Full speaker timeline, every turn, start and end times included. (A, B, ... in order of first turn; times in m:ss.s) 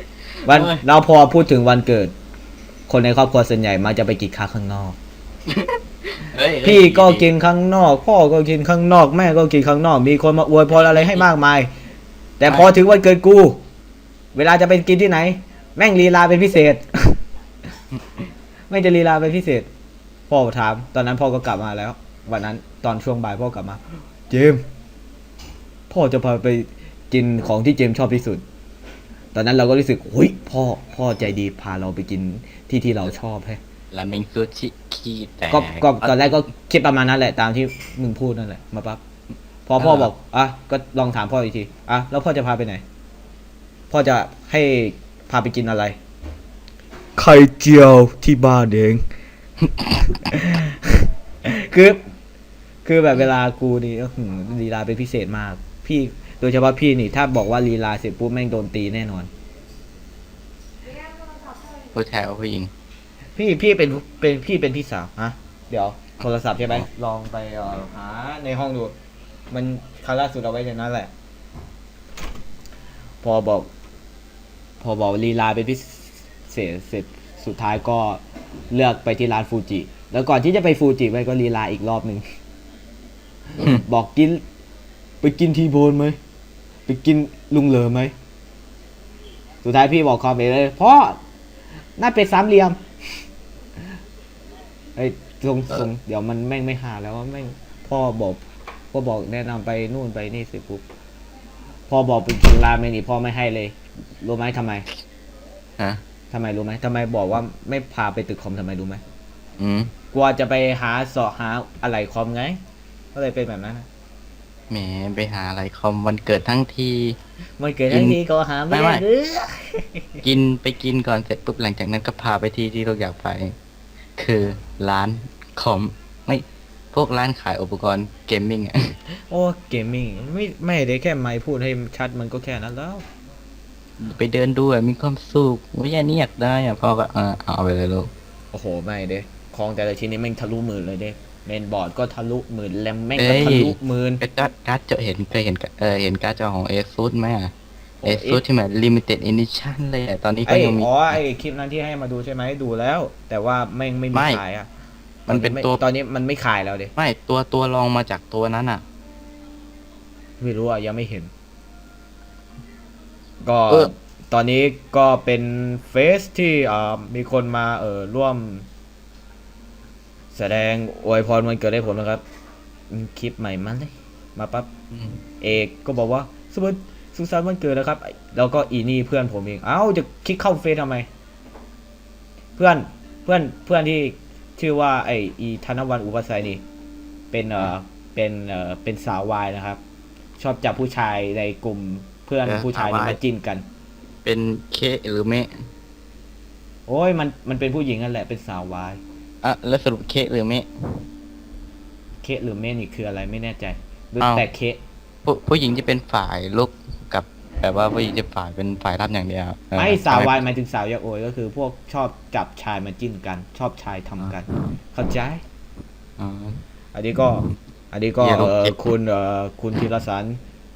0:00.4-0:00.8 A
0:00.4-0:02.1 B
0:02.9-0:05.0 B
0:05.5-0:07.3 A
0:06.6-0:11.7 B
0:12.4-0:13.6 B
0:14.3-0:17.2 B
0:18.7-0:19.7 B
0:20.3-0:24.6 B
0:25.9-0:28.4 B
0:29.3-0:33.6 B
0:33.9-0:36.4 A
0:35.5-0:39.0 B
0:39.6-0:42.8 B
0:39.8-0:40.1 A
0:43.9-0:46.0 B
0:47.2-0:49.0 B
0:50.1-0:52.0 B
0:52.8-0:59.3 B
1:01.8-1:02.7 A
1:03.4-1:08.9 B
1:09.5-1:11.1 B
1:13.2-1:13.7 B
1:14.8-1:22.2 B
1:23.6-1:24.4 B
1:25.2-1:26.2 B
1:26.9-1:28.1 B
1:29.6-1:31.2 B
1:32.0-1:32.8 B
1:35.0-1:38.4 B
1:38.9-1:40.8 B
1:41.9-1:44.8 B
1:46.3-1:49.0 B
1:49.6-1:49.9 A
1:50.1-1:52.6 B
1:53.1-1:53.9 B
1:54.7-1:57.2 A
1:57.6-2:00.2 B
1:57.9-1:58.2 A
1:58.7-1:59.0 A
2:00.2-2:03.5 A
2:04.2-2:09.0 A
2:09.2-2:13.0 B
2:14.0-2:18.1 A
2:18.5-2:24.2 B
2:23.1-2:27.5 A
2:28.0-2:28.4 B
2:28.0-2:31.2 A
2:30.4-2:34.7 B
2:34.1-2:34.4 A
2:35.3-2:36.9 B
2:35.3-2:35.8 A
2:37.0-2:38.8 A
2:40.4-2:41.3 B
2:43.4-2:48.7 B
2:50.3-2:52.2 B
2:52.9-2:54.7 B
2:54.9-2:55.2 A
2:55.4-3:01.1 B
3:02.6-3:06.6 B
3:07.3-3:09.8 B
3:10.4-3:13.6 B
3:12.4-3:13.2 A
3:14.2-3:15.7 A
3:16.9-3:19.0 B
3:19.4-3:21.0 A
3:22.2-3:24.8 B
3:24.2-3:24.4 A
3:25.2-3:30.4 A
3:29.8-3:35.4 B
3:36.2-3:36.6 A
3:36.9-3:40.4 B
3:38.2-3:38.8 A